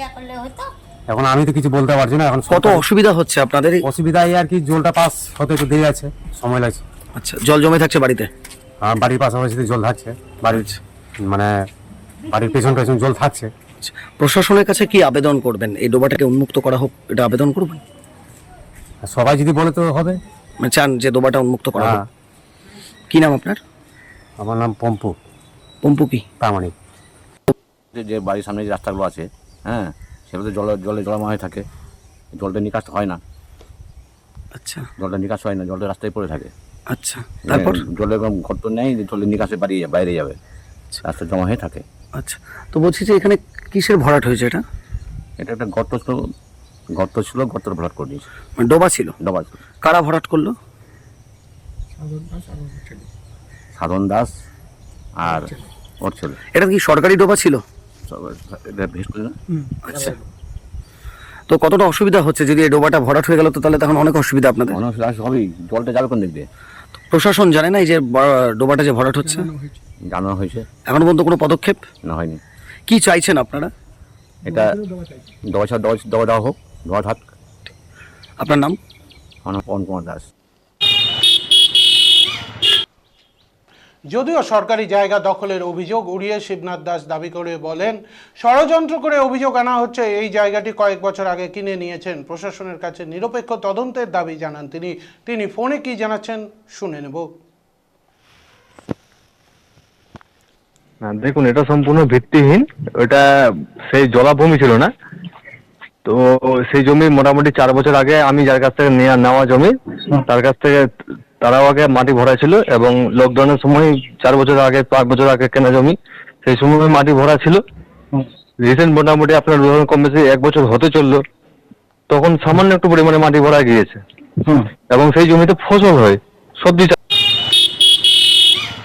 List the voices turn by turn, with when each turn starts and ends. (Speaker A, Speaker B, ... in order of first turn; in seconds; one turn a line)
Speaker A: 1.1-2.9
Speaker B: 2.5-3.8
Speaker A: 3.8-6.8
Speaker B: 7.2-8.3
Speaker A: 8.8-10.7
Speaker A: 11.2-11.5
Speaker A: 12.3-13.5
Speaker B: 13.8-17.8
Speaker A: 19.0-20.2
Speaker B: 20.6-21.9
Speaker A: 21.8-22.1
Speaker B: 23.1-23.6
Speaker A: 24.4-25.1
Speaker B: 25.8-26.2
Speaker A: 26.4-26.7
Speaker C: 27.9-31.7
Speaker C: 32.3-33.2
Speaker B: 34.6-34.9
Speaker C: 35.0-36.5
Speaker B: 36.9-37.8
Speaker C: 37.5-40.4
Speaker C: 41.0-41.8
Speaker B: 42.2-44.6
Speaker C: 45.4-46.2
Speaker C: 47.0-48.3
Speaker B: 48.6-49.1
Speaker C: 49.2-49.6
Speaker B: 49.8-50.6
Speaker C: 53.8-54.3
Speaker C: 55.2-56.4
Speaker B: 56.5-57.6
Speaker C: 58.1-59.3
Speaker B: 61.5-64.8
Speaker C: 64.7-66.5
Speaker B: 67.1-69.5
Speaker C: 70.1-70.7
Speaker B: 70.9-71.8
Speaker C: 72.0-72.4
Speaker B: 72.9-73.7
Speaker C: 74.5-74.8
Speaker C: 75.5-77.2
Speaker B: 78.4-78.8
Speaker C: 79.5-80.3
Speaker D: 84.1-97.3
Speaker E: 101.0-103.2
Speaker E: 103.9-104.9
Speaker E: 106.1-109.7
Speaker E: 110.3-110.8
Speaker E: 111.4-117.6
Speaker E: 118.6-121.2
Speaker E: 122.1-124.0
Speaker E: 124.9-126.9